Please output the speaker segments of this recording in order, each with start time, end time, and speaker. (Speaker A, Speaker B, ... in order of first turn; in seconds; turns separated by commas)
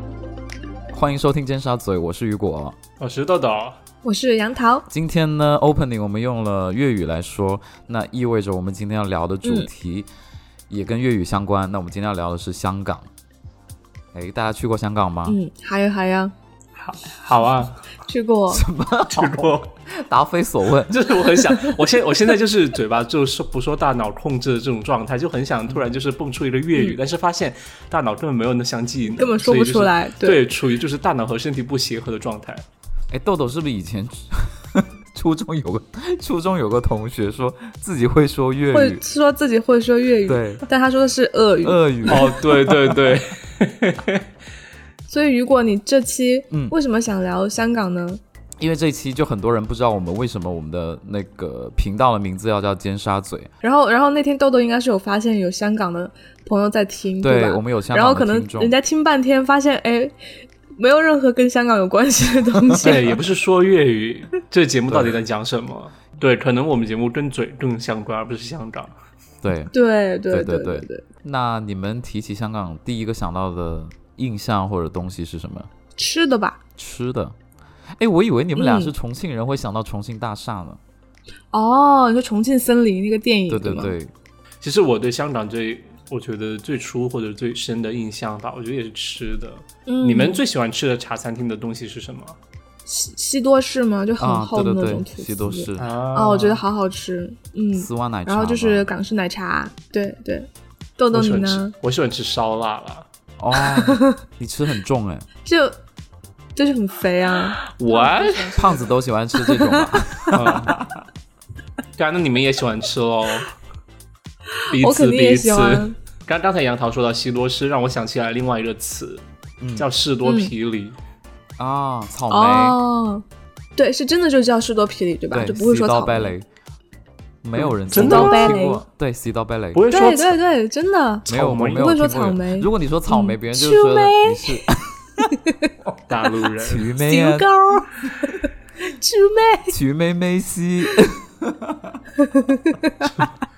Speaker A: 0.9-2.8, Speaker B: 3.0-3.8, Speaker C: 4.0-4.9, Speaker A: 4.9-10.1, Speaker C: 9.4-9.7, Speaker A: 10.7-13.1, Speaker A: 14.1-15.4, Speaker C: 15.2-16.3, Speaker B: 16.8-17.8, Speaker C: 18.1-18.6, Speaker A: 18.5-21.0, Speaker B: 19.1-19.7, Speaker B: 20.9-32.6, Speaker C: 29.1-30.4, Speaker A: 33.1-39.0, Speaker C: 38.7-42.3, Speaker A: 40.3-40.6, Speaker A: 41.6-43.0, Speaker B: 42.1-44.2, Speaker C: 45.1-48.2, Speaker A: 48.6-53.5, Speaker C: 53.6-63.1, Speaker A: 57.2-58.7, Speaker B: 62.8-68.9, Speaker A: 64.9-65.2, Speaker A: 69.4-69.7, Speaker C: 69.7-71.0, Speaker A: 70.3-75.7, Speaker C: 76.0-76.6, Speaker A: 76.8-77.3, Speaker A: 78.0-80.8, Speaker C: 78.6-78.9, Speaker C: 81.5-83.9, Speaker A: 83.5-84.1, Speaker B: 84.6-92.4, Speaker C: 89.8-90.4, Speaker C: 92.8-101.7, Speaker A: 94.2-95.9, Speaker B: 95.8-96.6, Speaker A: 97.8-98.9, Speaker B: 101.1-103.0, Speaker A: 103.4-105.3, Speaker C: 103.6-104.2, Speaker C: 105.4-105.8, Speaker C: 106.5-108.7, Speaker B: 107.7-108.8, Speaker A: 108.5-111.0, Speaker C: 109.4-110.3, Speaker B: 110.3-110.7, Speaker B: 112.0-113.5, Speaker C: 114.6-115.9, Speaker B: 114.7-119.2, Speaker A: 119.6-119.9, Speaker B: 119.8-121.0, Speaker C: 120.2-120.5, Speaker A: 121.6-122.8, Speaker C: 122.3-123.2, Speaker C: 123.8-126.3, Speaker A: 125.3-126.5, Speaker A: 127.4-129.8, Speaker B: 127.5-128.6, Speaker C: 127.9-128.8, Speaker B: 129.7-130.3, Speaker C: 129.9-134.7, Speaker B: 131.2-131.9, Speaker A: 131.3-135.2, Speaker C: 135.3-135.7, Speaker B: 136.1-136.9, Speaker A: 136.6-137.5, Speaker C: 137.0-139.8, Speaker A: 139.7-142.0, Speaker C: 142.2-143.3